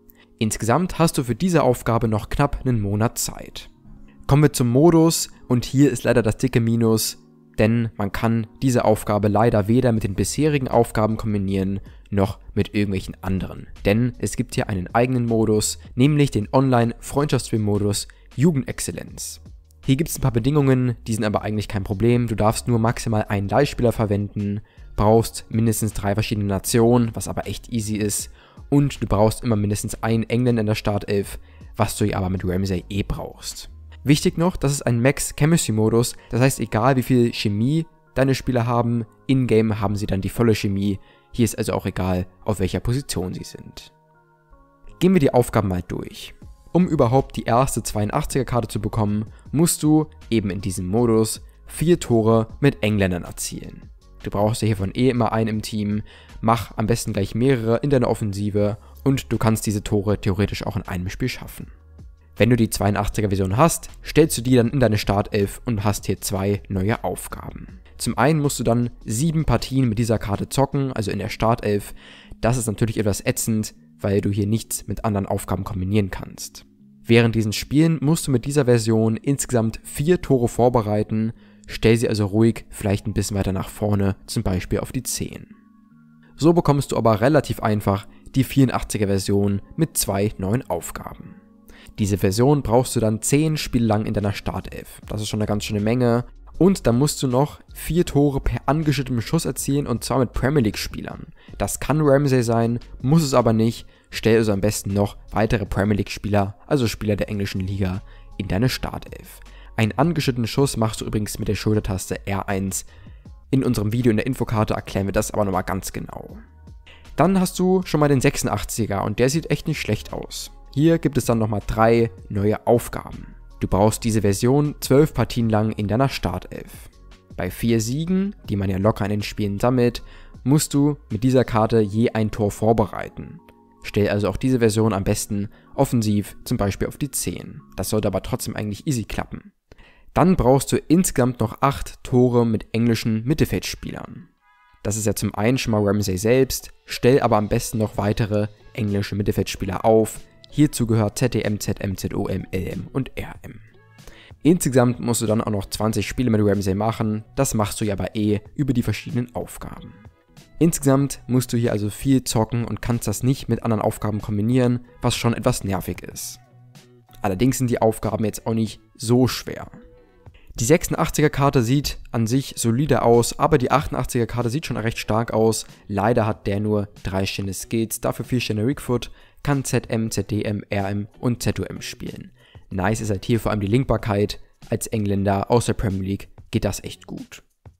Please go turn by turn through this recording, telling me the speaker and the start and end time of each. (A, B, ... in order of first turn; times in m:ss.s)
0:00.4-0:03.7 A
0:04.3-0:43.9 A
0:45.0-1:01.7 A
1:02.4-1:25.5 A
1:26.4-1:31.4 A
1:32.0-1:52.9 A
1:53.5-1:56.4 A
1:57.2-2:19.5 A
2:20.1-2:24.3 A
2:24.8-2:33.6 A
2:34.4-2:40.0 A
2:40.6-2:46.4 A
2:47.2-2:49.7 A
2:50.6-3:07.4 A